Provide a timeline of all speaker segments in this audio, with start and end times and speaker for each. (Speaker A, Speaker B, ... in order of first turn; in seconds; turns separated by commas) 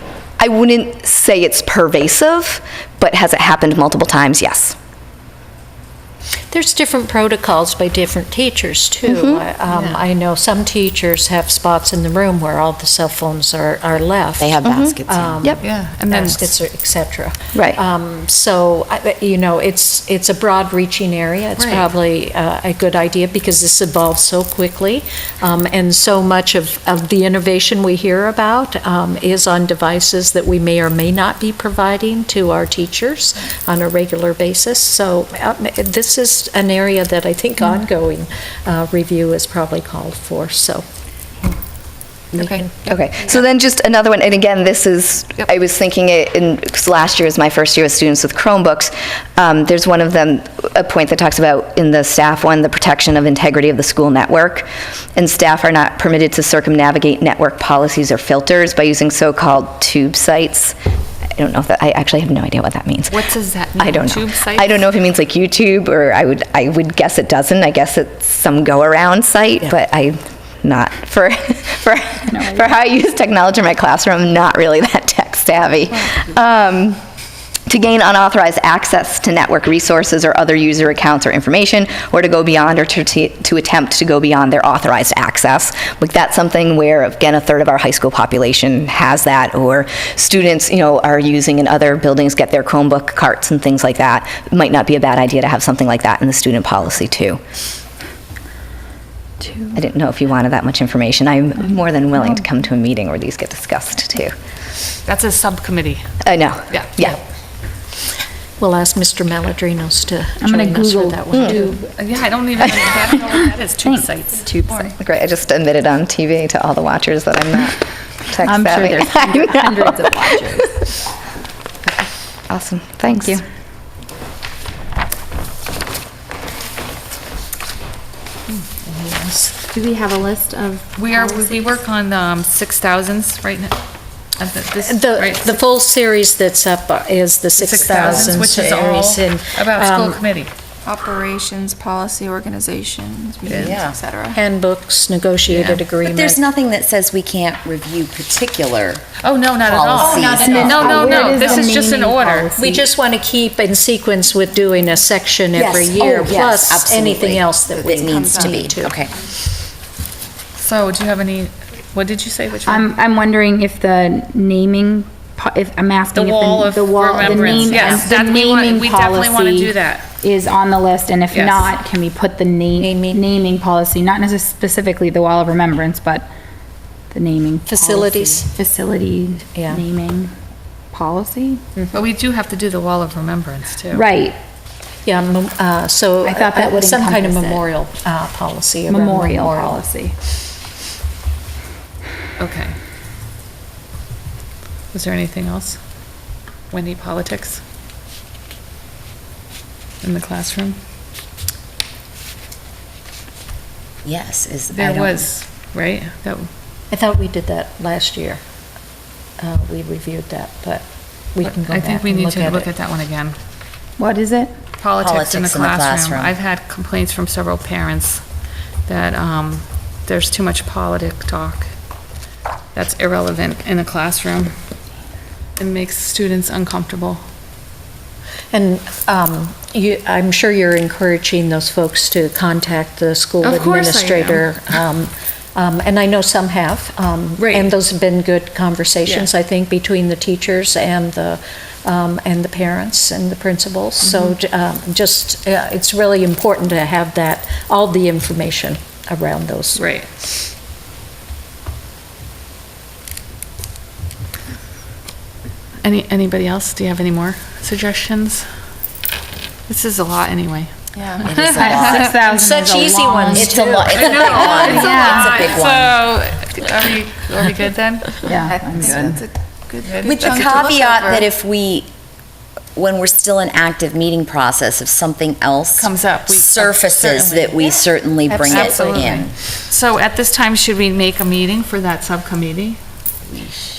Speaker A: 0.4-4.8, Speaker B: 6.5-40.8, Speaker A: 9.1-9.4, Speaker C: 9.7-10.0, Speaker D: 14.4-15.5, Speaker A: 14.7-15.6, Speaker C: 15.6-16.5, Speaker A: 17.5-17.8, Speaker C: 21.6-21.9, Speaker B: 42.3-42.7, Speaker A: 42.8-60.8, Speaker A: 61.4-63.1, Speaker C: 63.1-64.8, Speaker A: 63.8-77.0, Speaker E: 72.3-72.7, Speaker A: 77.7-97.4, Speaker A: 99.6-104.3, Speaker C: 105.1-106.1, Speaker A: 106.2-107.2, Speaker B: 108.6-111.7, Speaker E: 110.4-111.9, Speaker C: 111.7-115.0, Speaker E: 113.3-114.1, Speaker A: 114.5-120.7, Speaker E: 118.4-120.8, Speaker A: 122.5-123.4, Speaker B: 128.6-129.6, Speaker E: 129.7-131.6, Speaker C: 131.0-133.8, Speaker C: 134.3-135.6, Speaker B: 134.8-140.2, Speaker C: 137.6-140.5, Speaker F: 140.8-144.4, Speaker C: 143.5-143.8, Speaker D: 143.5-144.0, Speaker B: 144.3-146.4, Speaker C: 145.5-145.8, Speaker D: 146.0-149.0, Speaker C: 149.2-152.5, Speaker D: 149.7-151.4, Speaker F: 150.0-150.5, Speaker E: 150.3-152.8, Speaker B: 151.3-151.8, Speaker B: 152.4-159.0, Speaker D: 155.6-159.1, Speaker F: 157.7-158.7, Speaker C: 160.6-162.9, Speaker E: 162.6-176.3, Speaker C: 166.2-170.1, Speaker C: 171.3-171.7, Speaker B: 172.8-173.2, Speaker E: 177.1-180.3, Speaker B: 177.7-178.5, Speaker B: 179.6-179.8, Speaker E: 180.9-181.6, Speaker C: 181.9-184.1, Speaker E: 183.9-184.4, Speaker B: 185.1-189.8, Speaker E: 186.2-187.7, Speaker E: 188.9-190.2, Speaker C: 192.4-192.8, Speaker C: 194.9-195.8, Speaker C: 196.7-197.6, Speaker C: 200.0-200.8, Speaker D: 204.0-205.3, Speaker C: 204.7-206.5, Speaker B: 206.9-208.4, Speaker B: 209.4-212.7, Speaker C: 211.4-213.4, Speaker E: 214.0-214.6, Speaker C: 214.8-218.2, Speaker D: 215.0-216.3, Speaker C: 218.8-221.7, Speaker C: 222.8-224.6, Speaker C: 225.6-227.2, Speaker B: 228.5-249.8, Speaker C: 233.4-234.5, Speaker C: 237.4-237.7, Speaker C: 244.0-244.3, Speaker C: 249.8-250.1, Speaker C: 255.8-258.5, Speaker C: 259.7-260.7, Speaker F: 260.9-261.6, Speaker D: 261.2-262.1, Speaker C: 261.4-262.1, Speaker E: 261.5-263.6, Speaker B: 262.2-264.8, Speaker D: 263.3-265.9, Speaker C: 263.9-269.1, Speaker F: 264.6-265.6, Speaker E: 264.7-265.3, Speaker E: 268.2-269.2, Speaker F: 268.3-271.3, Speaker C: 269.9-270.8, Speaker D: 270.0-271.9, Speaker D: 272.8-279.3, Speaker C: 275.8-282.8